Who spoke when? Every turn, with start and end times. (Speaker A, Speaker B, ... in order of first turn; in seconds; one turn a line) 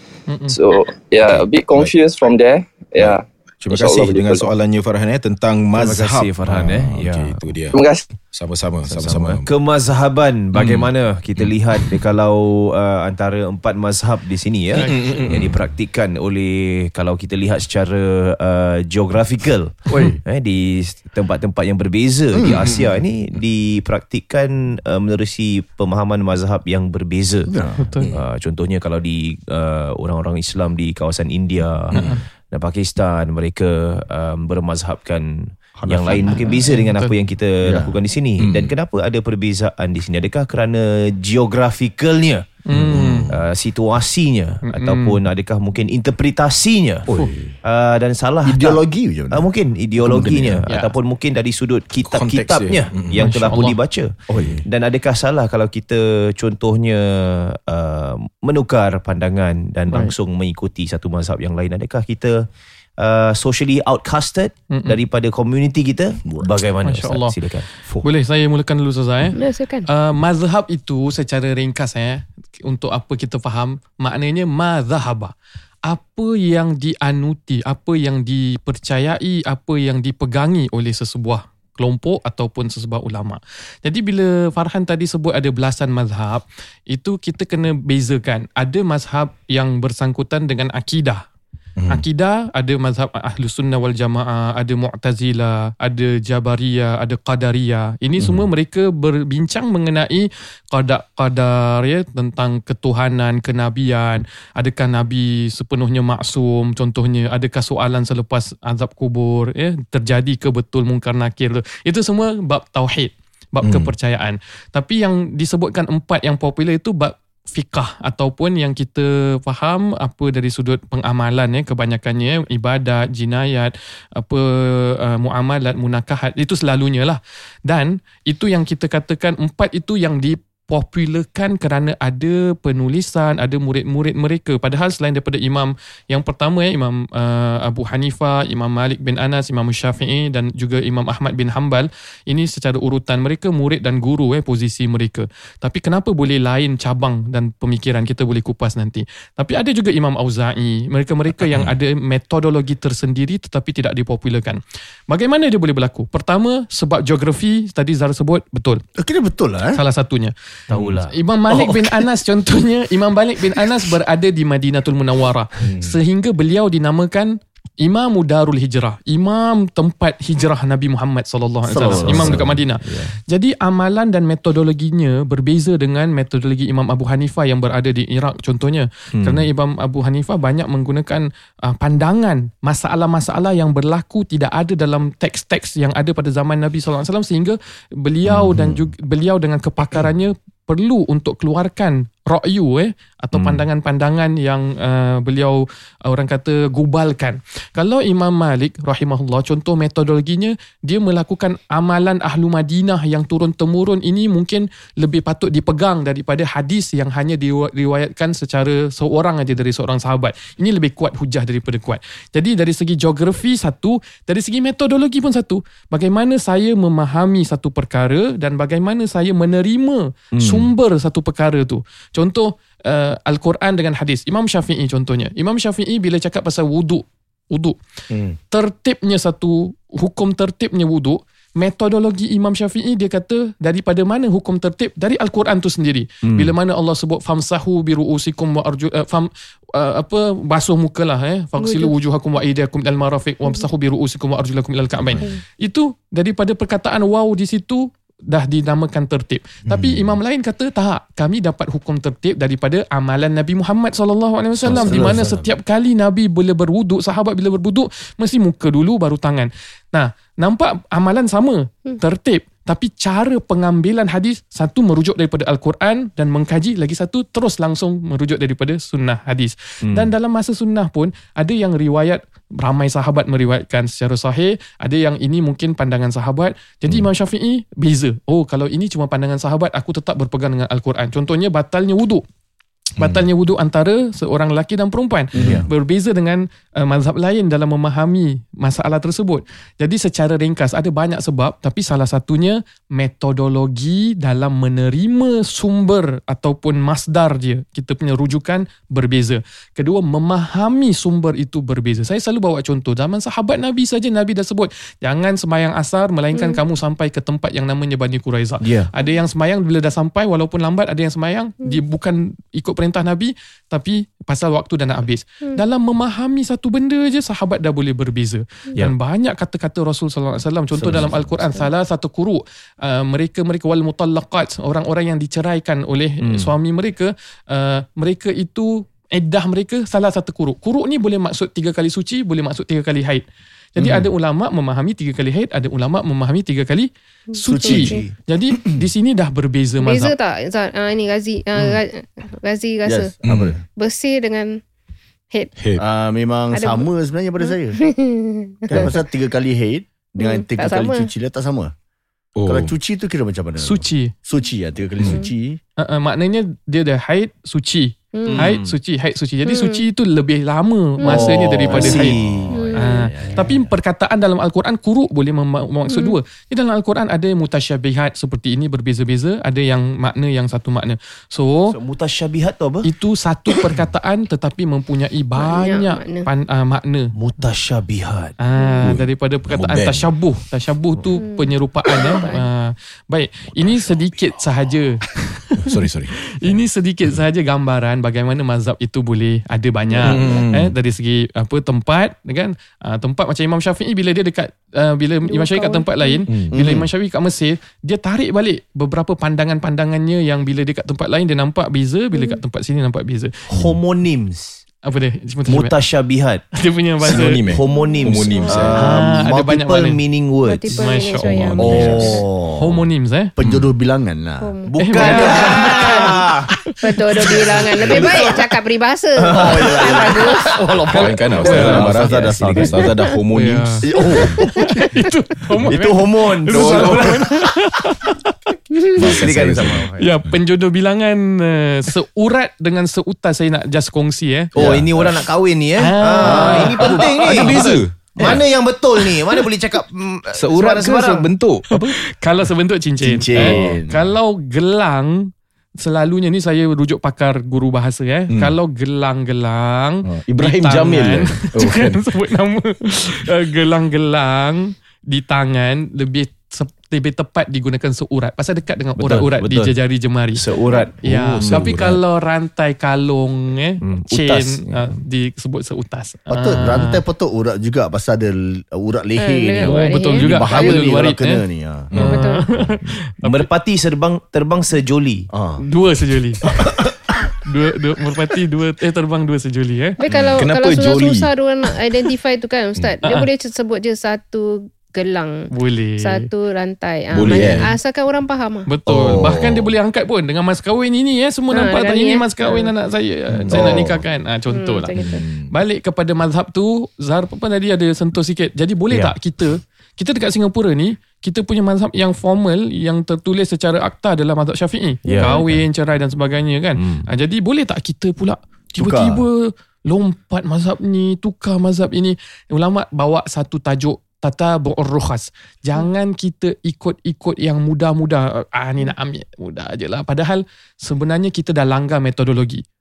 Speaker A: 0.3-0.5
Speaker B: 0.5-4.5
Speaker C: 1.2-1.9
Speaker C: 3.0-7.8
Speaker D: 5.7-7.4
Speaker B: 7.7-8.1
Speaker C: 8.3-9.5
Speaker D: 8.9-27.5
Speaker C: 10.5-12.0
Speaker A: 14.8-15.2
Speaker C: 14.8-15.6
Speaker E: 19.9-20.2
Speaker E: 27.5-27.8
Speaker A: 27.8-28.1
Speaker D: 28.1-42.6
Speaker A: 31.9-32.2
Speaker C: 31.9-32.2
Speaker E: 35.8-36.4
Speaker A: 36.3-37.1
Speaker E: 37.6-38.0
Speaker C: 38.4-38.7
Speaker A: 42.7-43.3
Speaker C: 42.7-43.4
Speaker D: 43.3-47.1
Speaker A: 44.6-45.2
Speaker E: 47.1-47.5
Speaker D: 47.6-62.5
Speaker E: 48.4-50.6
Speaker A: 50.7-50.9
Speaker C: 52.0-53.4
Speaker A: 53.1-53.8
Speaker E: 54.3-54.6
Speaker D: 63.0-68.0
Speaker A: 64.7-65.0
Speaker A: 66.8-67.3
Speaker A: 68.0-69.4
Speaker F: 69.3-69.9
Speaker A: 69.9-75.3
Speaker A: 75.9-91.2
Speaker C: 91.8-92.0
Speaker A: 91.9-158.8
Speaker C: 113.6-113.9
Speaker C: 151.4-151.7
Speaker E: 159.0-159.8
Speaker A: 159.7-160.3
Speaker D: 160.7-161.1
Speaker C: 160.7-161.0
Speaker A: 161.1-227.8
Speaker C: 165.6-165.9
Speaker E: 171.7-173.1
Speaker D: 171.9-172.5
Speaker D: 179.2-179.4
Speaker C: 188.2-188.9
Speaker C: 193.3-193.6
Speaker D: 220.3-220.7
Speaker C: 228.1-228.4
Speaker A: 228.5-282.2
Speaker D: 236.2-236.5
Speaker F: 241.6-241.9
Speaker C: 249.7-250.2
Speaker C: 254.6-255.5
Speaker D: 254.7-255.2
Speaker D: 269.9-270.1
Speaker C: 283.0-283.2
Speaker A: 283.0-333.2
Speaker E: 285.3-285.7
Speaker F: 306.3-306.6
Speaker D: 308.6-308.9
Speaker D: 320.8-321.1
Speaker C: 320.9-321.3
Speaker D: 326.2-326.5
Speaker A: 333.8-340.1
Speaker D: 333.8-334.1
Speaker F: 337.3-338.0
Speaker E: 337.4-338.1
Speaker F: 339.8-343.1
Speaker E: 342.8-343.6
Speaker C: 343.2-343.6
Speaker F: 343.8-344.6
Speaker E: 345.8-347.8
Speaker F: 346.5-346.9
Speaker F: 347.4-349.0
Speaker E: 348.7-351.7
Speaker F: 350.2-351.1
Speaker C: 352.4-352.7
Speaker E: 352.4-355.6
Speaker A: 353.6-354.1
Speaker F: 355.0-355.3
Speaker A: 355.8-362.2
Speaker F: 358.1-358.5
Speaker D: 358.2-358.7
Speaker F: 359.4-359.8
Speaker F: 361.0-361.9
Speaker D: 361.0-362.5
Speaker E: 361.7-363.7
Speaker F: 362.5-363.1
Speaker A: 362.7-371.8
Speaker F: 365.9-366.2
Speaker D: 371.7-372.9
Speaker A: 372.8-377.1
Speaker F: 375.4-376.3
Speaker D: 377.1-378.3
Speaker A: 378.4-385.7
Speaker F: 378.6-378.9
Speaker C: 378.8-380.1
Speaker F: 381.1-382.4
Speaker C: 385.6-386.1
Speaker A: 386.4-403.3
Speaker C: 390.0-390.7
Speaker E: 390.1-390.4
Speaker F: 395.2-396.2
Speaker E: 396.5-396.9
Speaker F: 402.1-402.4
Speaker D: 403.5-404.6
Speaker A: 404.9-405.7
Speaker D: 405.5-406.4
Speaker A: 406.6-407.4
Speaker C: 407.0-408.9
Speaker D: 407.1-410.9
Speaker F: 407.7-408.8
Speaker A: 408.7-410.0
Speaker F: 410.4-412.2
Speaker A: 410.7-412.0
Speaker C: 411.2-412.2
Speaker E: 411.6-412.8
Speaker A: 412.6-413.3
Speaker E: 413.4-415.5
Speaker C: 413.4-413.7
Speaker F: 414.4-416.2
Speaker D: 414.7-416.5
Speaker A: 414.8-416.2
Speaker F: 416.8-420.6
Speaker A: 417.1-418.0
Speaker D: 417.8-418.4
Speaker E: 417.8-418.3
Speaker D: 419.2-422.9
Speaker E: 419.3-422.9
Speaker C: 420.9-423.9
Speaker A: 423.3-428.3
Speaker E: 423.9-424.9
Speaker D: 425.6-427.2
Speaker E: 425.8-427.3
Speaker C: 426.5-427.2
Speaker F: 428.8-429.2
Speaker D: 428.9-430.2
Speaker C: 429.0-429.9
Speaker A: 430.0-434.5
Speaker D: 434.6-441.3
Speaker E: 434.6-434.9
Speaker C: 434.6-434.9
Speaker A: 435.8-438.4
Speaker E: 436.2-437.0
Speaker C: 437.0-438.4
Speaker C: 440.4-441.9
Speaker A: 441.7-460.4
Speaker E: 443.0-444.0
Speaker C: 443.4-443.8
Speaker C: 448.3-448.5
Speaker C: 450.0-452.0
Speaker D: 459.0-459.7
Speaker D: 460.3-461.7
Speaker F: 460.6-460.9
Speaker C: 461.0-462.0
Speaker A: 461.0-467.0
Speaker D: 463.8-465.0
Speaker E: 466.3-471.9
Speaker F: 469.2-470.8
Speaker A: 469.7-471.4
Speaker C: 471.9-472.7
Speaker A: 472.0-473.5
Speaker F: 472.0-472.4
Speaker D: 473.2-475.3
Speaker E: 475.3-475.6
Speaker A: 475.6-476.4
Speaker A: 477.4-480.0
Speaker F: 480.0-485.5
Speaker C: 480.1-481.3
Speaker A: 485.5-486.2
Speaker F: 486.0-488.7
Speaker C: 487.1-487.7
Speaker A: 487.2-487.6
Speaker A: 488.7-522.6
Speaker E: 488.9-489.7
Speaker C: 489.1-489.4
Speaker F: 491.5-492.7
Speaker C: 493.4-493.8
Speaker E: 493.5-494.0
Speaker F: 494.5-495.2
Speaker C: 494.9-495.5
Speaker D: 498.9-499.1
Speaker D: 505.1-505.4
Speaker D: 506.8-507.1
Speaker E: 508.8-509.2